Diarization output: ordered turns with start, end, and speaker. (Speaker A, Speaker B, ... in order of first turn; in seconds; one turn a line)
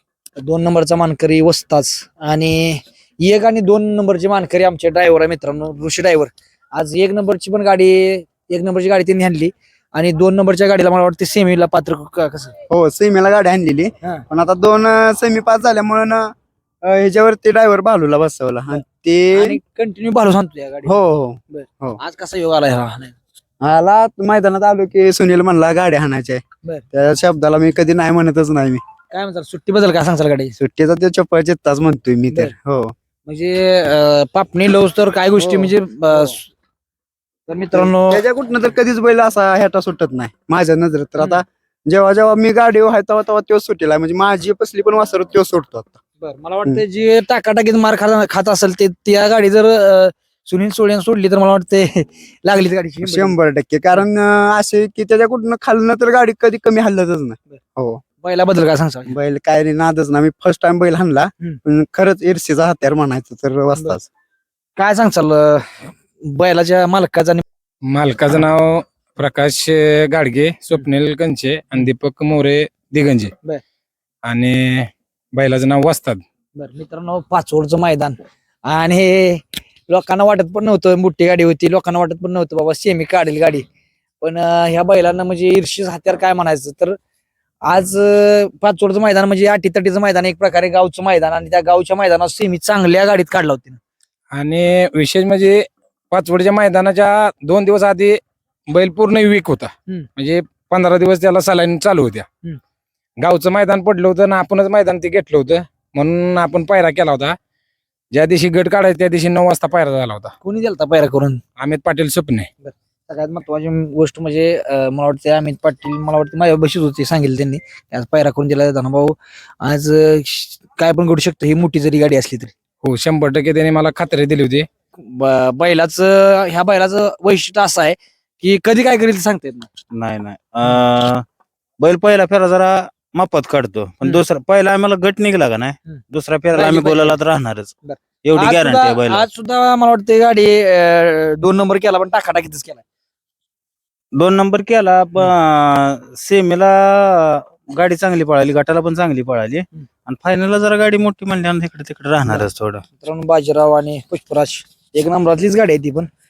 Speaker A: 0.4-12.5
Speaker B: 12.7-16.3
Speaker B: 16.8-19.6
Speaker A: 19.4-20.9
Speaker B: 20.9-22.0
Speaker A: 21.5-23.2
Speaker B: 23.6-28.8
Speaker A: 29.1-30.6
Speaker B: 30.6-32.9
Speaker A: 33.3-36.5
Speaker B: 35.4-36.4
Speaker A: 37.5-38.2
Speaker B: 37.7-46.0
Speaker A: 46.2-53.4
Speaker B: 53.0-58.0
Speaker A: 58.2-59.1
Speaker B: 59.1-64.1
Speaker A: 64.8-67.4
Speaker C: 67.8-73.3
Speaker C: 74.2-76.2
Speaker A: 76.6-83.7
Speaker A: 84.2-87.0
Speaker A: 87.7-93.8
Speaker C: 94.3-102.3
Speaker C: 103.2-107.4
Speaker C: 108.1-110.3
Speaker A: 110.4-111.4
Speaker C: 111.6-112.5
Speaker A: 112.6-122.5
Speaker C: 122.8-124.7
Speaker A: 125.0-129.7
Speaker D: 129.9-131.2
Speaker D: 131.8-137.7
Speaker A: 136.6-137.2
Speaker A: 137.8-142.8
Speaker D: 138.2-139.3
Speaker D: 144.1-152.8
Speaker A: 152.3-156.1